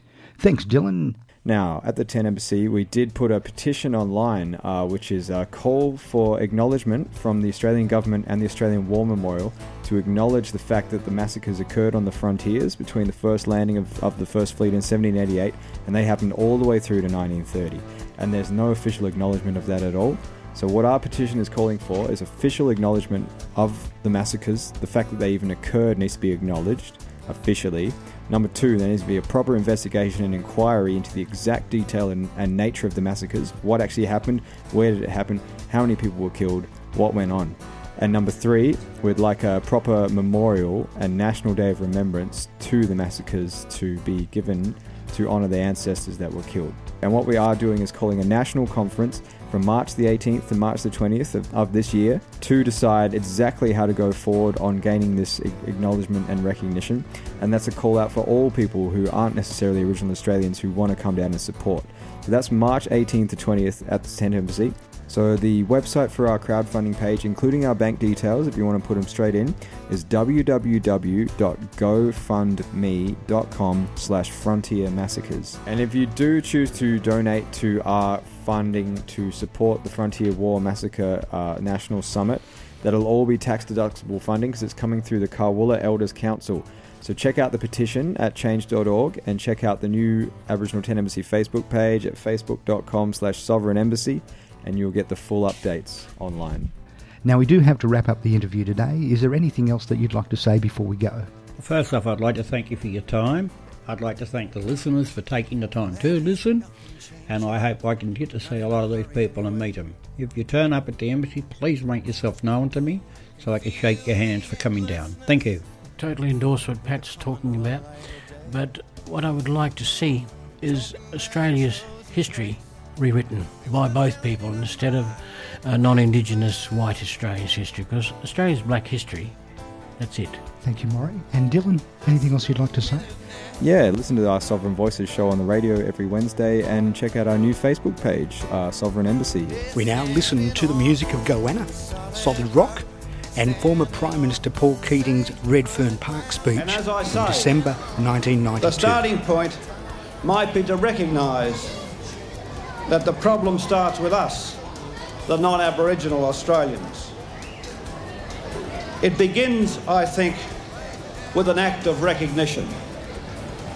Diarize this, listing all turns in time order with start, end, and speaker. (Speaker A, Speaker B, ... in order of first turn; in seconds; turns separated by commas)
Speaker A: 0.4-1.2, Speaker B: 1.4-96.7, Speaker A: 97.2-101.3, Speaker C: 101.6-106.6, Speaker C: 107.3-115.6, Speaker D: 116.0-117.9, Speaker D: 118.5-129.4, Speaker D: 130.0-130.4, Speaker A: 130.6-133.1, Speaker B: 133.6-139.7, Speaker A: 139.7-142.8, Speaker A: 143.4-149.1, Speaker E: 146.6-147.6, Speaker E: 148.6-149.6, Speaker E: 150.2-151.8, Speaker E: 152.9-154.6, Speaker E: 155.3-157.1, Speaker E: 159.0-160.5, Speaker E: 161.3-162.8